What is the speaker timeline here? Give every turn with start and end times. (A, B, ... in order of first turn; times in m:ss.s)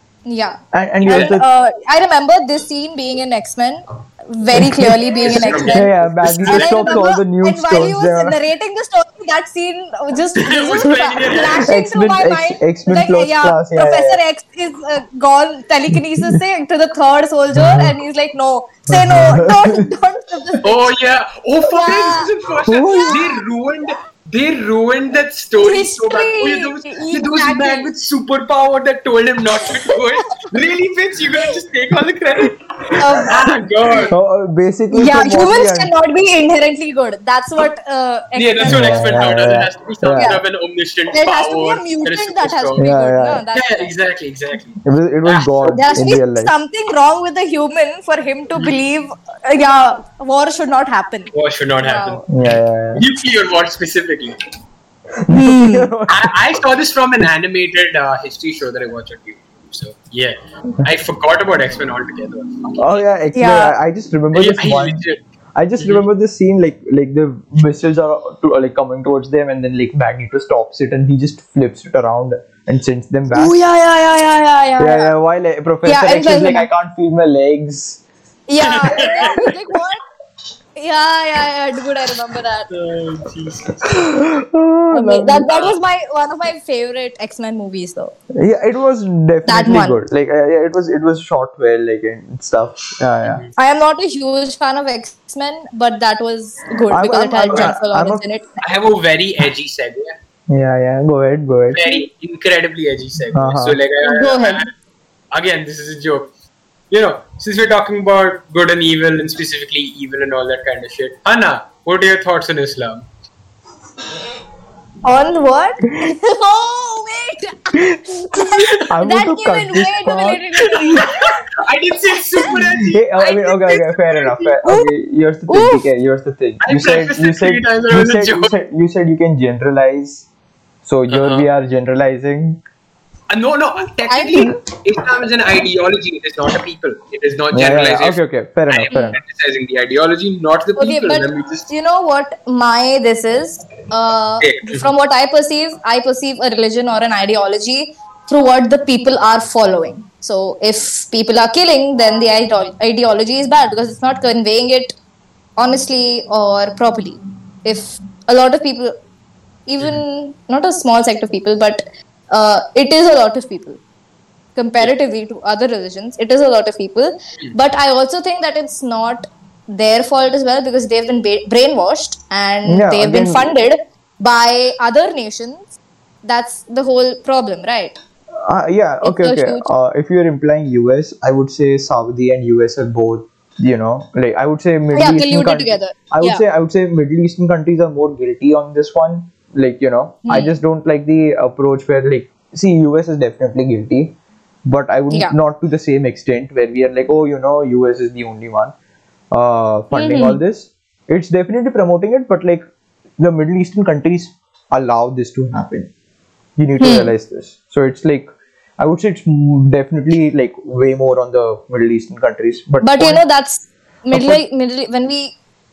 0:00.3-0:20.8 A
0:00.7-0:01.4 B
0:01.0-0:01.4 C
0:04.5-0:08.4 B
0:05.2-0:07.0 C
0:10.4-0:11.7 C
0:11.6-0:14.2 B
0:17.6-0:17.9 B
0:18.9-0:19.8 B
0:20.6-0:34.1 C
0:21.7-0:22.3 A
0:22.7-0:23.2 B
0:22.8-0:23.3 A
0:25.6-0:27.9 A
0:29.8-0:30.5 A
0:33.0-0:33.4 A
0:34.1-0:35.9 B
0:34.9-0:39.4 A
0:38.4-0:42.8 C
0:38.6-0:40.4 B
0:41.1-0:43.9 A
0:42.8-0:43.4 B
0:43.5-0:46.0 C
0:44.8-0:46.6 B
0:45.8-0:52.2 A
0:51.3-0:54.4 C
0:52.3-0:53.0 B
0:55.3-0:56.4 B
0:55.3-0:55.9 A
0:56.1-1:03.1 C
1:02.8-1:05.0 B
1:03.4-1:03.7 A
1:04.3-1:05.2 C
1:05.6-1:13.6 B
1:05.8-1:06.0 C
1:13.3-1:15.1 A
1:14.8-1:18.0 B
1:15.8-1:16.7 A
1:18.5-1:20.0 A
1:18.6-1:19.5 C
1:20.8-1:22.7 A
1:22.7-1:23.9 C
1:23.8-1:25.6 B
1:24.9-1:28.2 A
1:25.5-1:25.8 C
1:28.4-1:33.4 B
1:29.5-1:30.0 A
1:33.2-1:33.5 C
1:33.6-1:38.4 A
1:36.9-1:38.3 B
1:38.6-1:40.2 C
1:40.5-1:41.8 B
1:41.7-1:44.7 C
1:43.3-1:43.8 B
1:44.0-1:44.7 A
1:45.3-1:46.3 C
1:46.9-1:53.0 C
1:55.0-2:01.4 A
1:58.8-2:00.4 B
2:00.8-2:04.6 C
2:02.8-2:10.2 B
2:04.6-2:04.9 A
2:05.5-2:05.8 A
2:06.6-2:08.5 C
2:10.8-2:12.6 B
2:11.1-2:11.5 C
2:13.3-2:21.7 C
2:14.1-2:14.6 A
2:17.5-2:19.2 B
2:18.9-2:19.2 A
2:20.8-2:35.0 A
2:24.4-2:24.9 C
2:35.6-2:38.9 A
2:39.7-2:43.8 A
2:44.6-2:55.7 A
2:52.6-2:53.5 B
2:56.2-2:58.0 A
2:58.4-3:18.7 B
2:59.0-2:59.7 A
3:04.9-3:06.4 A
3:10.3-3:10.6 A
3:19.3-3:22.6 B
3:19.9-3:20.4 A
3:23.2-3:25.9 B
3:26.6-3:28.3 B
3:26.8-3:27.1 A
3:28.8-3:33.2 B
3:32.8-3:35.4 A
3:34.1-3:34.4 B